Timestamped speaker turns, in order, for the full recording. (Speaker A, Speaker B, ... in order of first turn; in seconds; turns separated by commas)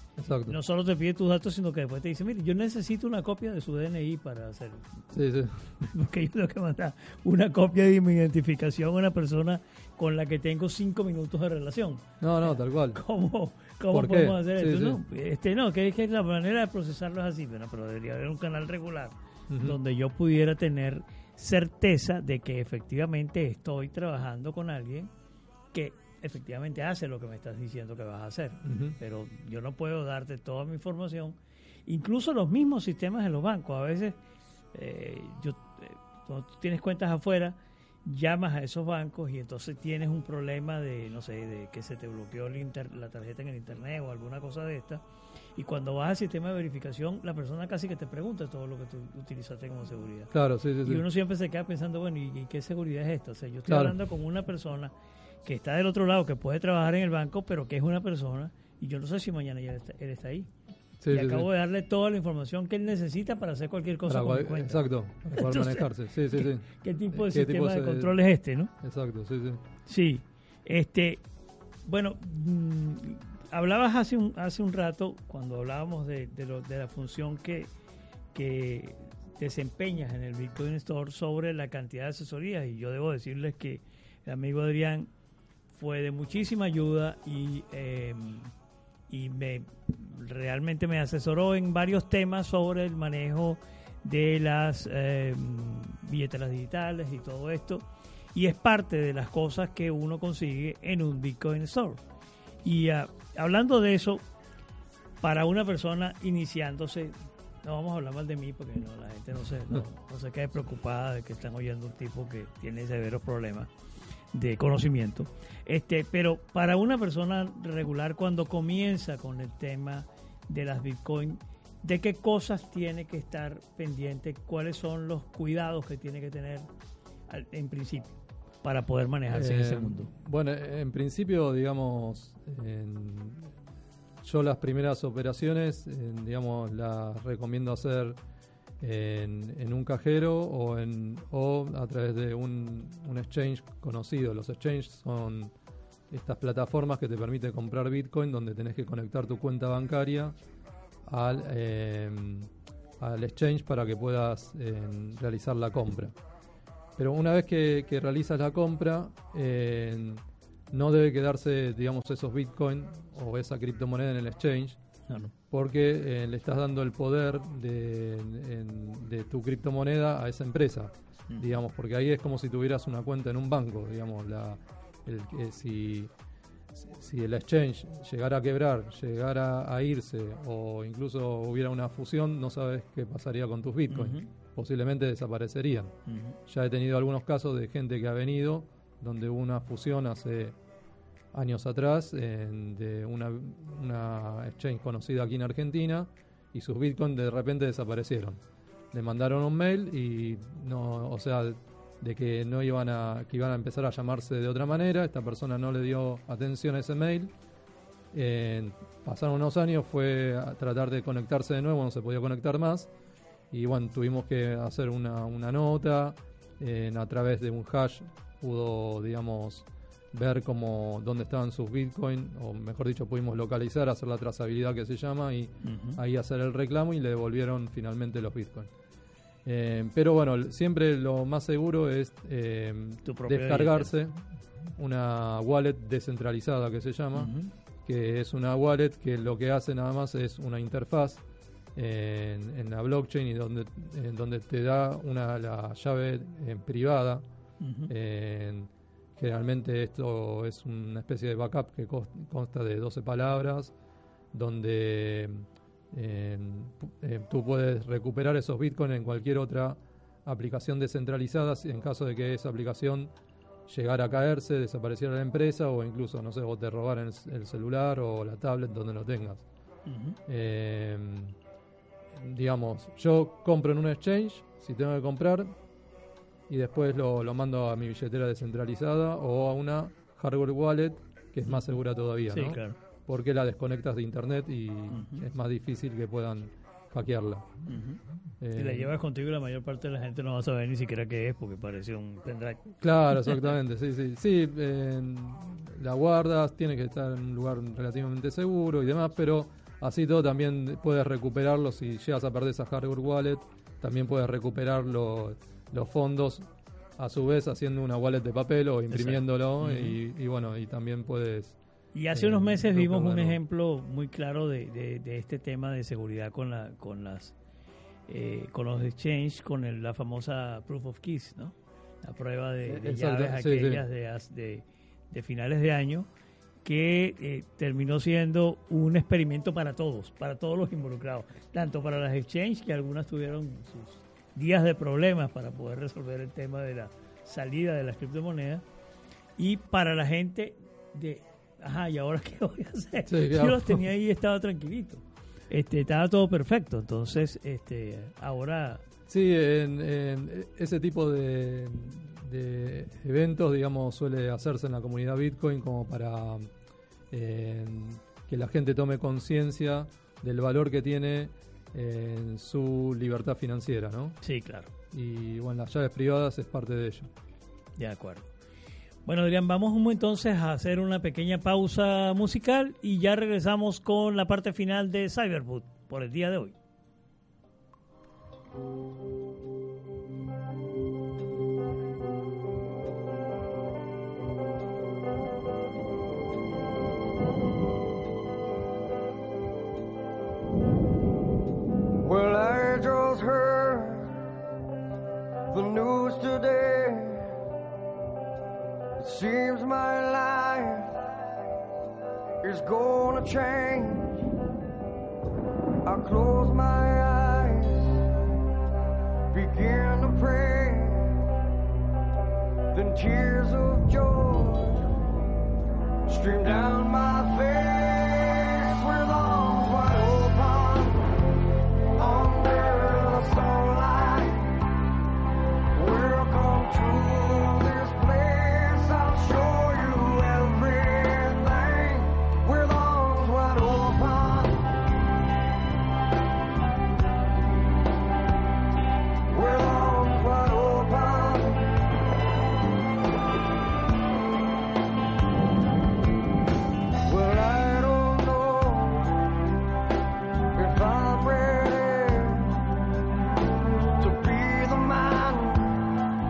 Speaker A: 0.2-0.6, Speaker B: 0.5-5.0, Speaker A: 5.1-5.8, Speaker B: 5.8-25.1, Speaker A: 12.2-13.0, Speaker A: 13.9-15.0, Speaker A: 19.5-19.8, Speaker B: 25.7-34.2, Speaker A: 28.6-29.0, Speaker B: 34.7-45.0, Speaker B: 45.5-50.3, Speaker A: 50.3-51.0, Speaker B: 50.8-54.9, Speaker A: 53.7-54.0, Speaker B: 55.4-60.5, Speaker A: 61.0-61.5, Speaker B: 61.1-64.8, Speaker A: 64.0-68.1, Speaker B: 65.3-68.7, Speaker A: 68.8-69.6, Speaker B: 69.9-71.2, Speaker B: 71.8-77.7, Speaker B: 78.3-85.1, Speaker B: 85.7-88.5, Speaker B: 89.1-102.0, Speaker B: 102.6-104.2, Speaker B: 105.2-113.7, Speaker B: 114.3-126.7, Speaker B: 127.3-128.1, Speaker B: 128.6-130.1, Speaker A: 129.3-133.5, Speaker A: 134.2-138.2, Speaker A: 138.8-145.5, Speaker A: 146.1-150.3, Speaker A: 151.1-156.1, Speaker A: 157.0-164.8, Speaker A: 165.5-176.1, Speaker A: 176.7-185.9, Speaker B: 183.9-184.3, Speaker B: 186.1-186.4, Speaker A: 186.5-190.6, Speaker A: 191.3-198.4, Speaker A: 198.9-207.3, Speaker A: 208.1-212.9, Speaker A: 213.5-228.7, Speaker B: 225.6-226.0, Speaker A: 229.4-234.1, Speaker B: 233.0-233.9, Speaker A: 234.8-237.3, Speaker B: 237.1-237.5, Speaker A: 237.8-241.2, Speaker A: 241.7-247.2, Speaker B: 247.6-247.9, Speaker A: 247.9-253.7, Speaker A: 254.3-263.1, Speaker A: 263.7-269.4, Speaker B: 269.9-270.2, Speaker A: 270.3-271.3, Speaker A: 272.1-275.5, Speaker A: 276.5-287.5, Speaker B: 282.3-282.8, Speaker B: 284.9-285.2, Speaker B: 287.7-288.0, Speaker A: 288.4-288.9, Speaker B: 288.5-293.4, Speaker A: 292.8-306.5, Speaker A: 307.0-311.6, Speaker B: 308.9-310.0, Speaker B: 311.9-317.3, Speaker A: 312.1-313.4, Speaker B: 318.1-326.1, Speaker A: 322.7-323.8, Speaker B: 326.6-338.6, Speaker B: 339.4-348.8, Speaker A: 343.1-343.8, Speaker A: 349.1-356.5, Speaker A: 357.1-364.2, Speaker B: 364.2-364.7, Speaker A: 364.9-367.1, Speaker B: 367.8-368.3, Speaker B: 369.1-376.5, Speaker C: 392.0-394.2, Speaker C: 395.5-397.3, Speaker C: 399.0-401.0, Speaker C: 402.4-404.1, Speaker C: 405.8-408.0, Speaker C: 409.3-411.2, Speaker C: 412.7-414.9, Speaker C: 416.1-421.1, Speaker C: 422.0-424.6, Speaker C: 425.7-434.6, Speaker C: 439.3-441.8, Speaker C: 447.0-449.2, Speaker C: 450.5-452.6, Speaker C: 454.0-455.9